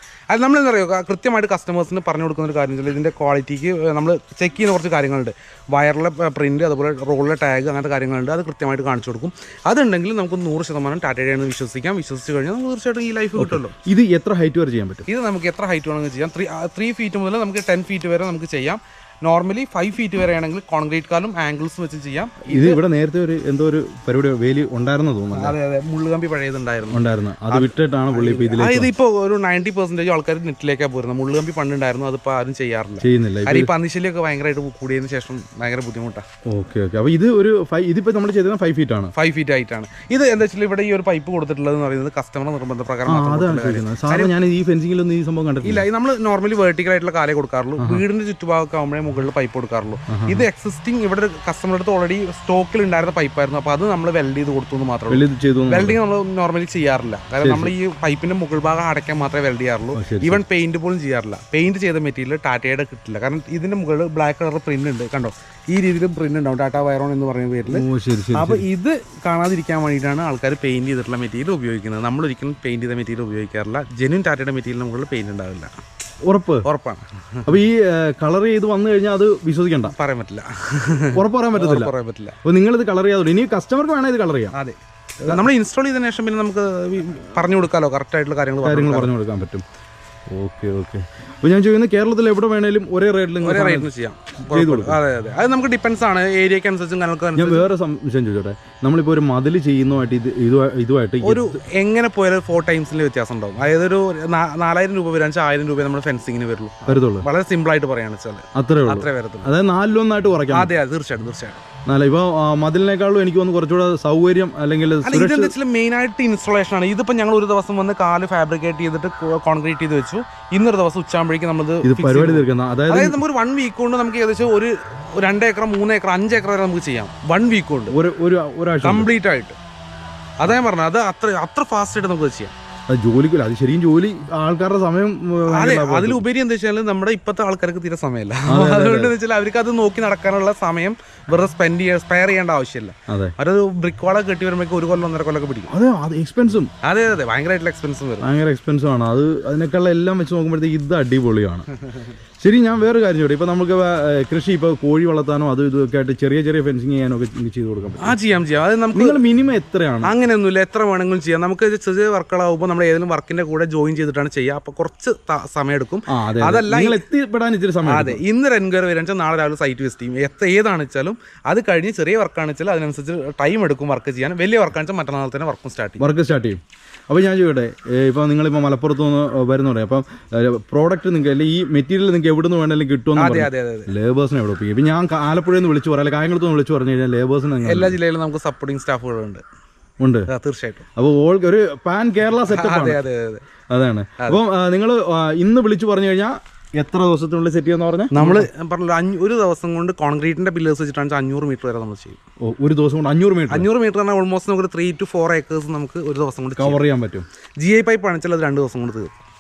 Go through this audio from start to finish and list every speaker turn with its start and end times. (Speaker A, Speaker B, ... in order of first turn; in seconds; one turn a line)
Speaker A: 0.3-13.7
Speaker B: 13.4-15.1
Speaker A: 15.1-22.8
Speaker B: 22.5-25.6
Speaker A: 25.4-36.2
Speaker B: 26.9-28.9
Speaker B: 33.0-33.7
Speaker B: 36.5-39.1
Speaker A: 39.1-44.3
Speaker B: 43.1-45.9
Speaker A: 45.6-75.7
Speaker B: 47.8-48.0
Speaker B: 50.1-50.5
Speaker B: 55.1-56.0
Speaker B: 57.4-57.7
Speaker B: 60.0-60.4
Speaker B: 67.7-68.7
Speaker B: 76.2-76.7
Speaker A: 76.7-77.5
Speaker B: 77.5-80.0
Speaker A: 79.9-82.4
Speaker B: 81.1-81.9
Speaker B: 82.4-84.5
Speaker A: 84.5-89.1
Speaker B: 88.6-89.6
Speaker B: 90.3-93.9
Speaker A: 93.4-97.7
Speaker B: 94.5-95.0
Speaker B: 97.3-101.6
Speaker A: 101.2-109.5
Speaker B: 106.9-107.3
Speaker B: 108.5-110.7
Speaker A: 110.5-111.6
Speaker B: 111.9-115.5
Speaker A: 115.0-128.0
Speaker B: 121.8-123.2
Speaker B: 127.9-129.1
Speaker A: 128.8-129.6
Speaker A: 130.4-132.5
Speaker B: 132.9-136.2
Speaker A: 135.5-145.7
Speaker B: 138.5-139.2
Speaker B: 143.1-143.3
Speaker B: 145.7-146.7
Speaker A: 146.8-148.3
Speaker B: 148.2-151.7
Speaker B: 152.4-158.2
Speaker A: 158.0-159.2
Speaker B: 158.9-160.1
Speaker A: 160.0-167.0
Speaker B: 166.1-168.2
Speaker A: 167.8-176.1
Speaker B: 176.0-188.0
Speaker A: 183.2-183.9
Speaker A: 187.7-189.4
Speaker B: 190.0-190.3
Speaker A: 190.3-190.8
Speaker B: 191.0-193.0
Speaker A: 192.5-193.4
Speaker B: 193.7-198.5
Speaker A: 198.1-202.2
Speaker B: 202.4-203.7
Speaker A: 203.5-206.8
Speaker B: 206.6-207.3
Speaker A: 207.6-209.1